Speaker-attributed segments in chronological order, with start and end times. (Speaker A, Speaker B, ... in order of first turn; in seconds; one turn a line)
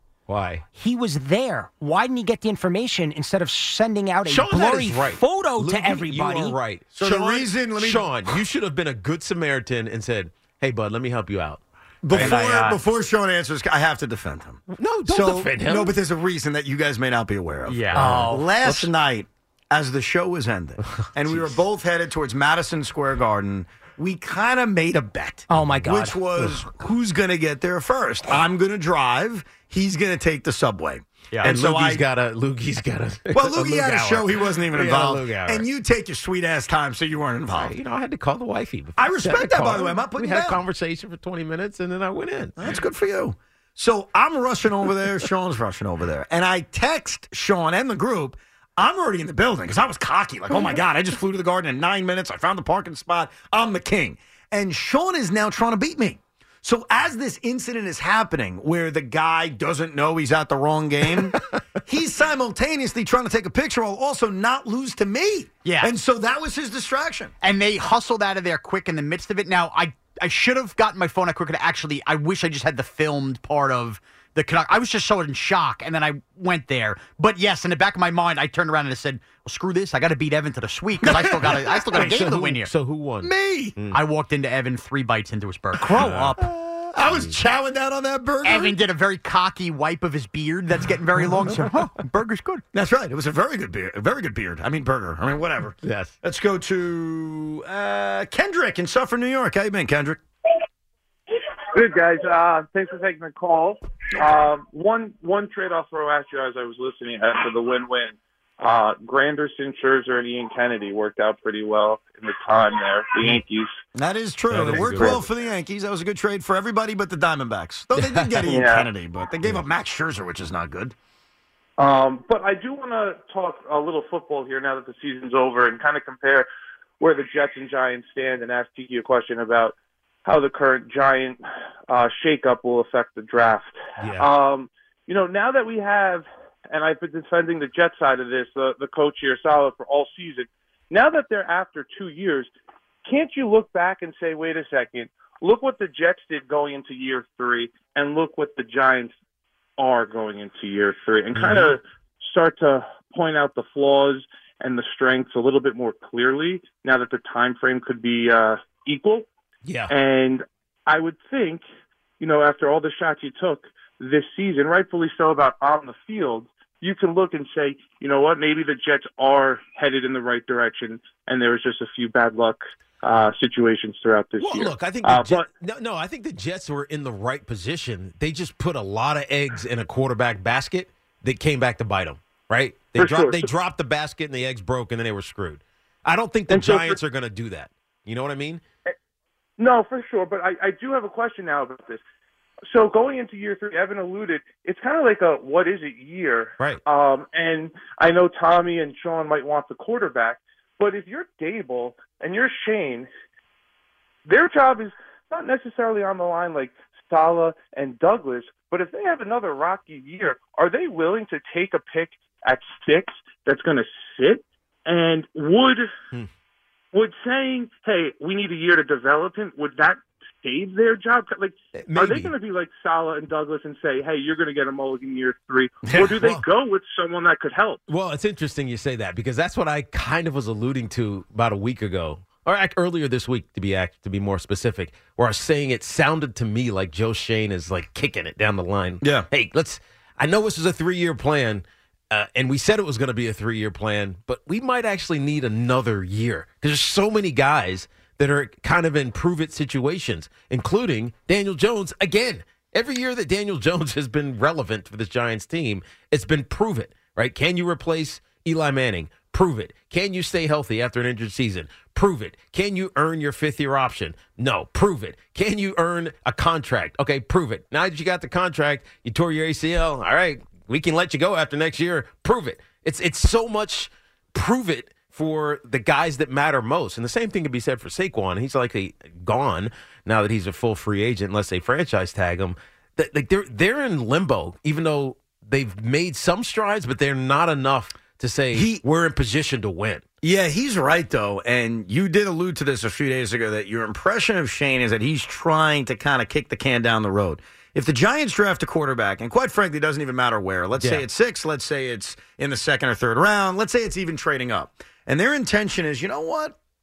Speaker A: 0.3-0.6
Speaker B: 0.7-6.6
Speaker A: 4.3-12.4
Speaker C: 7.0-8.4
Speaker C: 12.0-32.0
Speaker D: 12.1-12.8
Speaker A: 14.8-15.9
Speaker D: 17.7-18.5
Speaker A: 17.9-18.9
Speaker B: 25.5-26.2
Speaker A: 31.4-35.6
Speaker C: 33.3-37.7
Speaker A: 37.5-42.5
Speaker C: 39.0-40.6
Speaker C: 42.6-67.3
Speaker D: 65.6-65.9
Speaker D: 67.4-82.7
Speaker A: 81.4-84.0
Speaker C: 81.4-82.1
Speaker C: 83.2-83.8
Speaker D: 83.9-86.5
Speaker A: 85.9-87.3
Speaker C: 86.9-88.8
Speaker D: 88.4-92.6
Speaker C: 92.7-100.2
Speaker A: 95.8-96.1
Speaker E: 101.7-113.8
Speaker C: 113.9-120.9
Speaker A: 114.5-115.2
Speaker A: 117.9-118.5
Speaker E: 118.5-118.9
Speaker E: 121.8-126.5
Speaker E: 127.0-142.5
Speaker A: 134.0-134.3
Speaker E: 143.1-149.1
Speaker E: 149.8-159.3
Speaker A: 151.3-151.8
Speaker A: 159.6-159.9
Speaker E: 159.9-161.6
Speaker E: 162.2-175.5
Speaker A: 174.4-188.6
Speaker E: 182.9-183.5
Speaker E: 186.5-187.0
Speaker E: 189.6-192.0
Speaker E: 192.7-203.1
Speaker E: 204.2-215.9
Speaker E: 216.9-227.8
Speaker A: 221.8-222.3
Speaker C: 225.8-226.3
Speaker A: 226.0-226.4
Speaker A: 227.9-290.0
Speaker C: 239.0-239.3
Speaker C: 288.5-288.8
Speaker C: 290.2-306.5
Speaker A: 300.8-301.0